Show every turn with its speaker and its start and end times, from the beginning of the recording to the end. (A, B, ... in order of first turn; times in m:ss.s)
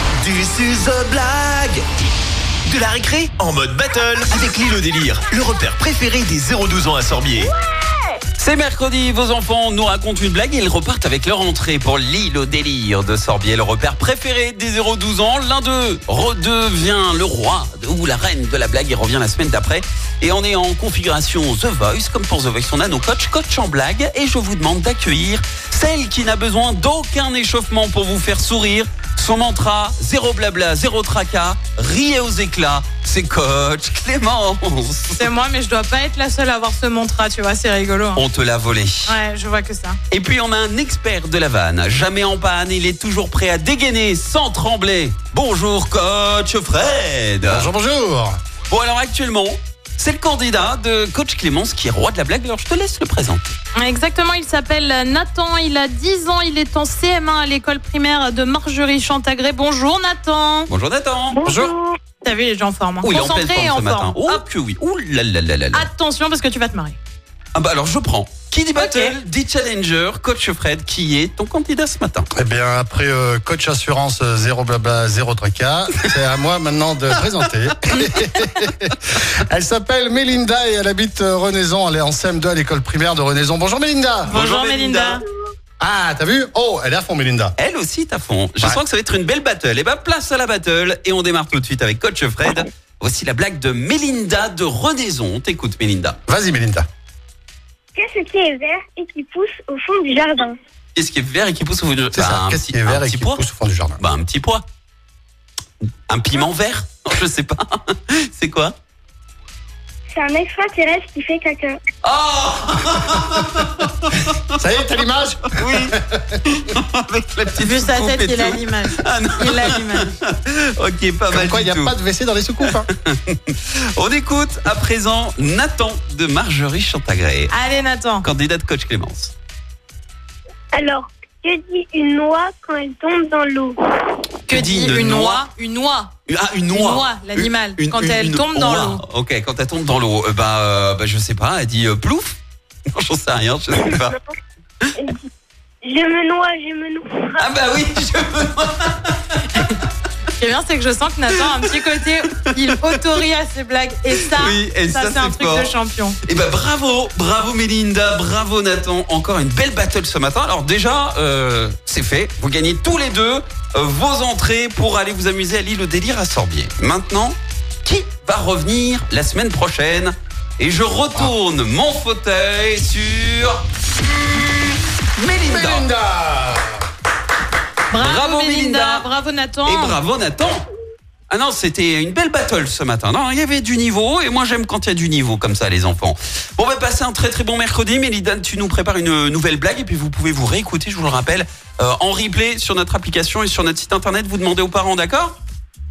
0:00.2-0:01.8 A
0:02.7-0:07.5 A
0:08.4-0:35.3 B
0:35.2-0:38.2 C
0:38.2-0:39.1 B
0:39.1-0:40.0 C
0:40.1-0:47.7 B
0:47.4-0:48.4 D
0:48.7-0:53.6 B
0:53.8-1:00.7 C
1:00.7-1:01.4 B
1:01.3-1:02.0 E
1:01.5-1:01.7 D
1:02.2-1:04.4 C
1:03.0-1:05.9 B
1:05.7-1:07.0 C
1:07.6-1:12.3 B
1:08.8-1:09.2 C
1:12.4-1:24.3 D
1:24.3-1:25.2 B
1:24.4-1:25.2 C
1:25.8-1:27.5 D
1:27.6-1:36.2 B
1:36.3-1:36.8 D
1:38.0-1:40.6 E
1:41.0-1:43.4 B
1:42.1-1:44.0 D
1:44.0-1:44.6 B
1:46.1-1:48.8 B
1:50.1-1:51.8 E
1:52.0-1:55.0 B
1:54.6-1:56.4 D
1:55.5-1:56.0 B
1:56.5-2:02.0 B
1:57.6-2:00.1 C
2:01.3-2:02.9 D
2:02.6-2:07.5 B
2:07.5-2:08.3 C
2:08.2-2:09.3 B
2:10.7-2:13.8 E
2:14.5-2:16.1 C
2:14.5-2:15.5 B
2:16.3-2:22.4 B
2:16.7-2:19.0 C
2:22.9-2:24.2 B
2:25.0-2:25.3 E
2:25.8-2:27.4 E
2:27.4-2:29.6 B
2:29.5-2:29.8 C
2:30.4-2:36.2 C
2:32.4-2:33.2 B
2:34.2-2:35.7 B
2:36.2-2:53.6 B
2:55.2-2:55.9 B
2:55.4-2:56.8 D
2:57.9-3:00.0 C
2:58.0-2:59.1 B
2:59.7-3:00.6 B
3:01.3-3:15.4 B